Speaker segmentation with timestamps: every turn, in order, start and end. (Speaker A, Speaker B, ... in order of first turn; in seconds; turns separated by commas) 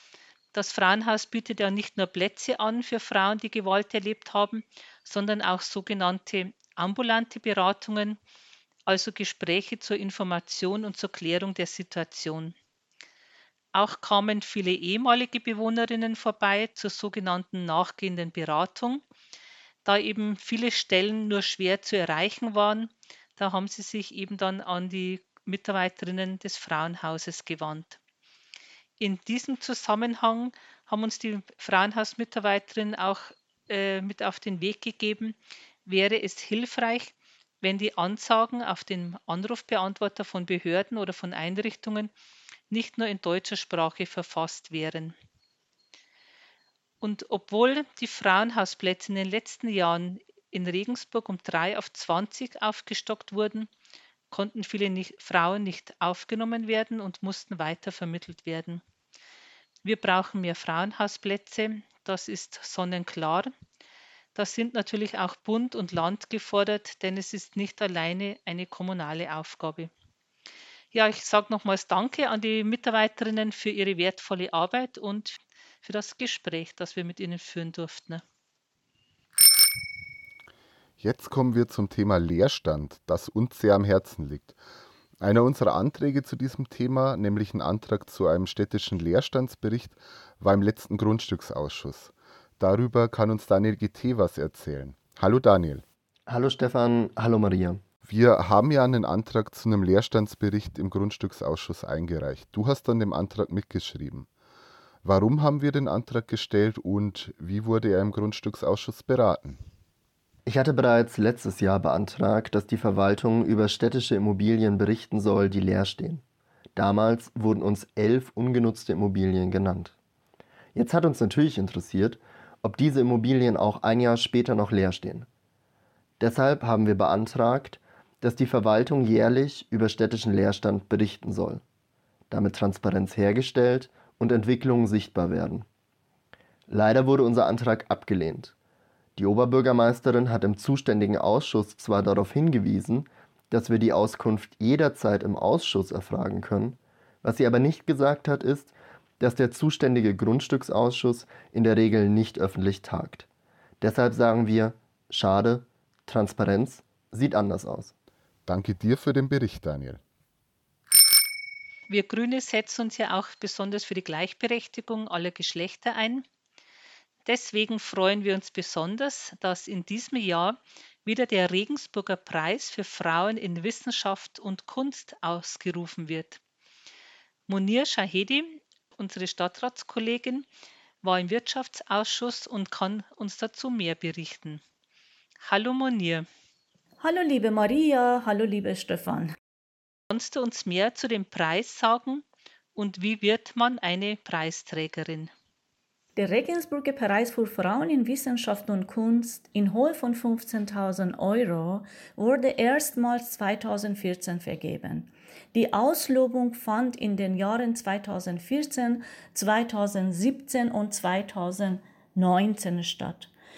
Speaker A: 0.5-8.2, Speaker A: 8.9-12.6, Speaker A: 13.8-19.0, Speaker A: 19.8-28.0, Speaker A: 29.0-42.1, Speaker A: 42.7-45.2, Speaker A: 47.0-53.7, Speaker A: 54.3-58.8, Speaker A: 59.9-63.5, Speaker A: 64.3-69.9, Speaker A: 70.9-78.2, Speaker B: 81.0-84.5, Speaker B: 85.2-95.8, Speaker C: 96.3-97.8, Speaker B: 98.0-104.3, Speaker B: 105.0-109.6, Speaker C: 110.5-116.2, Speaker C: 116.8-120.0, Speaker C: 120.8-125.3, Speaker C: 126.2-131.6, Speaker C: 132.3-135.7, Speaker C: 136.7-138.5, Speaker C: 139.2-153.3, Speaker C: 153.8-157.9, Speaker B: 158.5-160.0, Speaker A: 161.9-166.2, Speaker A: 167.2-176.4, Speaker A: 177.5-180.5, Speaker A: 181.0-184.6, Speaker A: 185.4-186.2, Speaker D: 187.0-189.3, Speaker A: 190.1-195.3, Speaker D: 196.2-213.3